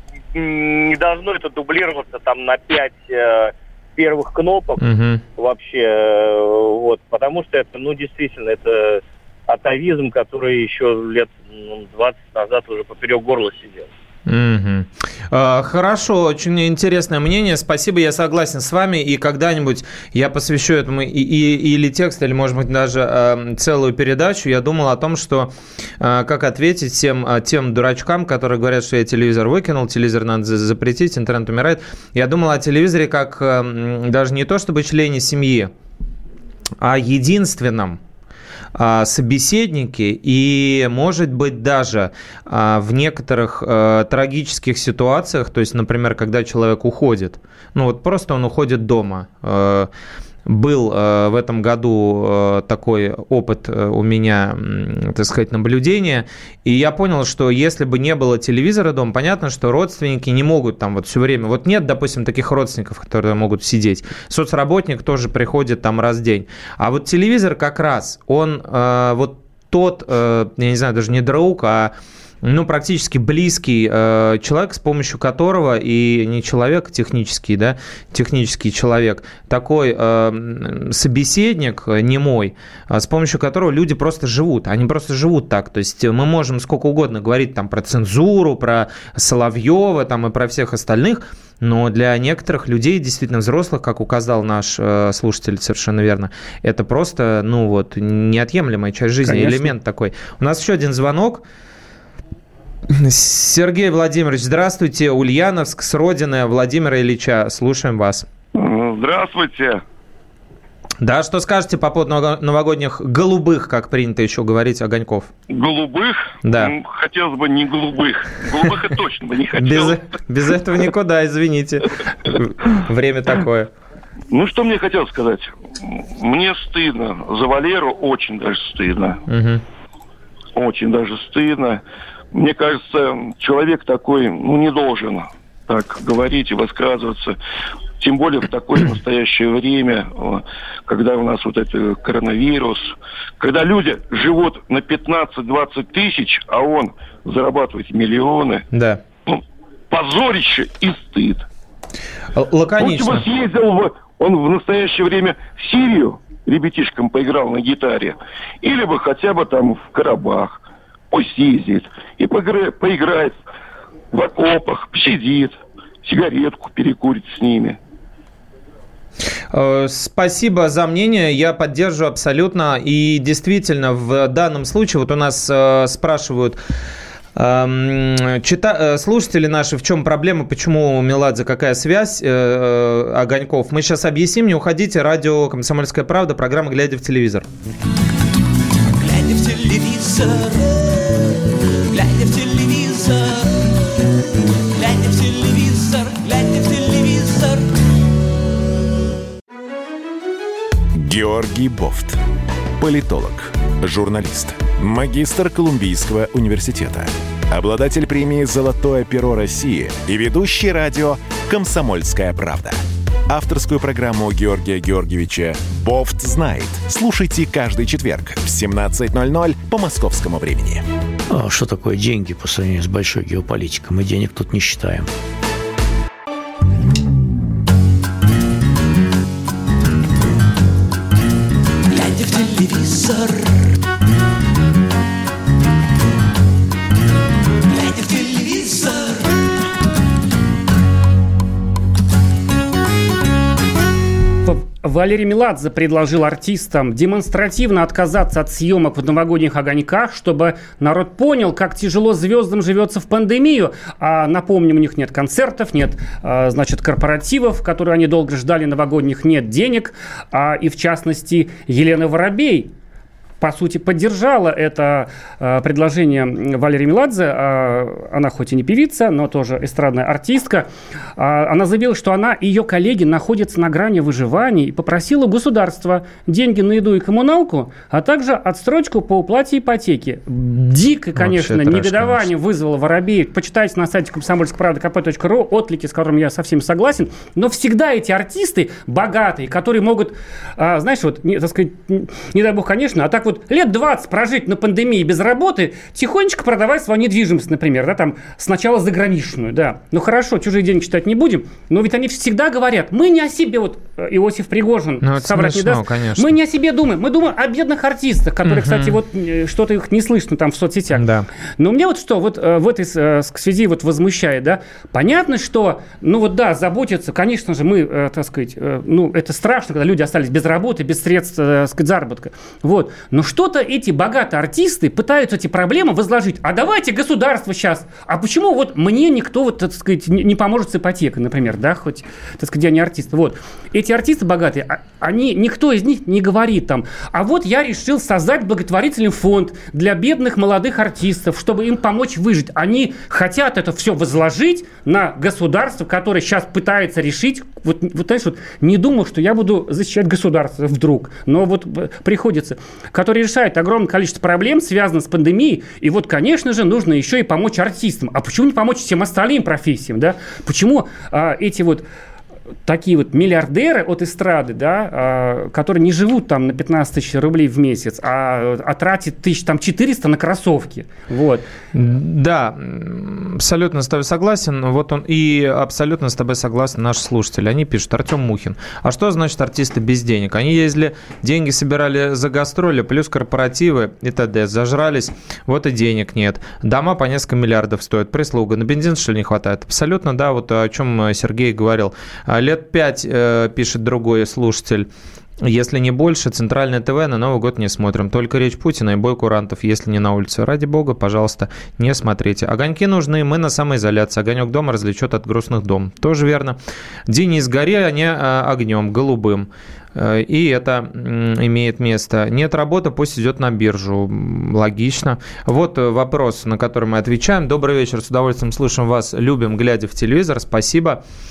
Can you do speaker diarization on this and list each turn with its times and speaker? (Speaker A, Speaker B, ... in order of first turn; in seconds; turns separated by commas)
Speaker A: 0.3-4.8, Speaker B: 4.8-5.2, Speaker A: 5.4-13.9, Speaker B: 14.2-35.7, Speaker B: 36.8-38.0, Speaker B: 38.7-49.9, Speaker B: 50.5-101.4, Speaker C: 99.2-99.7, Speaker B: 102.9-108.2, Speaker D: 108.5-109.8, Speaker B: 111.0-115.3, Speaker D: 115.5-120.0, Speaker B: 116.4-116.7, Speaker B: 119.5-123.7, Speaker D: 124.3-129.2, Speaker B: 129.3-129.6, Speaker D: 130.6-131.8, Speaker D: 132.3-137.4, Speaker D: 138.0-148.6, Speaker B: 148.7-149.0, Speaker D: 149.3-151.4, Speaker B: 152.3-153.2, Speaker D: 152.8-163.3, Speaker D: 164.1-167.8, Speaker B: 169.5-176.6, Speaker B: 177.3-187.5, Speaker E: 189.0-191.3, Speaker E: 191.9-193.6, Speaker E: 194.7-197.7, Speaker F: 200.9-202.2, Speaker F: 202.8-220.8, Speaker G: 221.3-225.1, Speaker E: 231.9-233.5, Speaker E: 237.7-239.2, Speaker C: 244.4-262.7, Speaker C: 263.4-311.0, Speaker B: 281.2-282.2, Speaker B: 305.0-306.4, Speaker B: 308.4-309.0, Speaker B: 310.9-311.3, Speaker C: 311.6-361.8, Speaker C: 362.6-371.4, Speaker B: 371.7-394.9, Speaker B: 395.4-421.0